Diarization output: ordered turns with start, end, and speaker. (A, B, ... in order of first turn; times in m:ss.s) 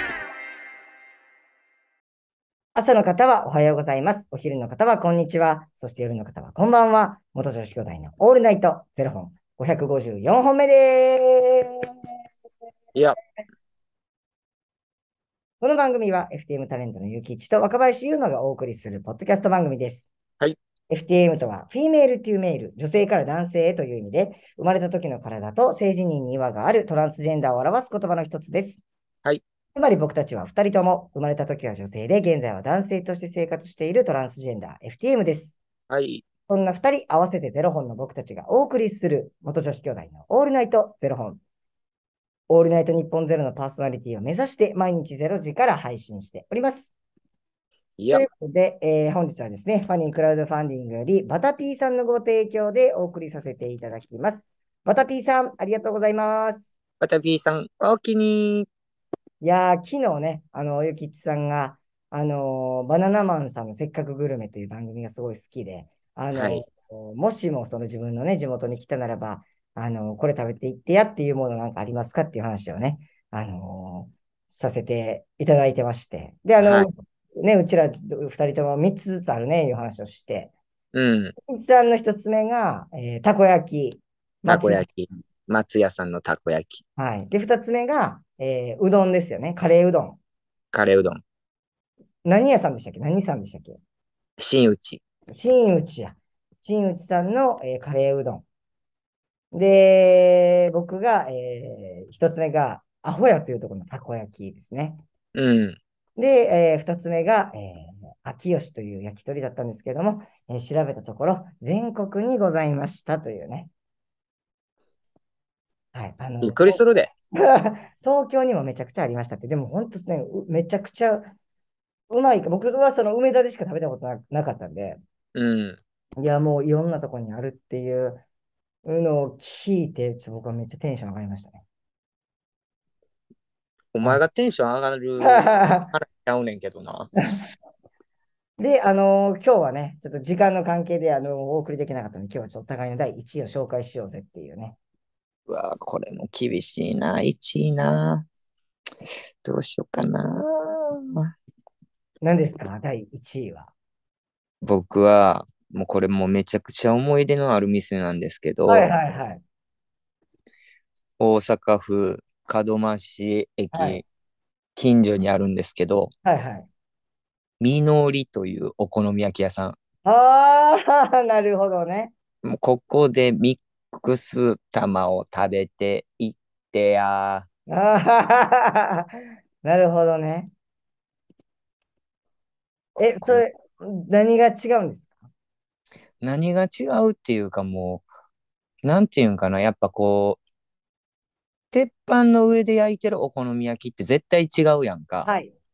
0:02.7-0:11.9 A
0:15.6-0:20.0 A
0:20.9-0:28.8 A
0:29.7-0:35.6 A
0:35.9-0:36.2 B
0:36.5-0:41.4 A
0:42.5-0:46.9 A
0:48.0-0:48.2 B
0:48.1-0:56.7 A
0:57.0-0:58.7 B
0:59.4-1:20.5 A
1:06.3-1:06.6 B
1:16.6-1:16.9 B
1:20.9-1:21.3 B
1:21.5-1:24.8 A
1:24.5-1:26.8 B
1:27.0-1:30.2 A
1:30.7-1:31.2 B
1:32.2-1:33.8 A
1:34.4-1:35.0 B
1:35.3-1:38.4 A
1:39.5-1:45.0 A
1:45.3-1:45.8 B
1:46.2-1:53.7 A
1:55.9-1:56.8 A
1:56.4-1:57.1 B
1:57.4-2:01.3 A
2:02.1-2:05.0 A
2:05.3-2:05.8 B
2:06.2-2:08.2 A
2:08.8-2:11.6 A
2:13.9-2:17.1 B
2:15.2-2:15.9 A
2:18.6-2:24.8 A
2:25.5-2:28.3 B
2:29.4-2:31.0 B
2:32.2-2:33.7 A
2:34.6-2:38.9 B
2:38.6-2:39.4 A
2:41.2-2:44.0 B
2:43.7-2:44.0 A
2:44.8-2:46.1 B
2:46.2-2:46.7 A
2:47.6-2:49.8 B
2:50.0-2:52.1 A
2:52.4-2:57.4 B
2:57.7-2:59.1 A
2:59.6-3:00.5 A
3:03.0-3:05.2 A
3:03.0-3:03.4 B
3:06.2-3:08.0 B
3:08.8-3:10.4 B
3:11.7-3:15.3 B
3:15.2-3:15.5 A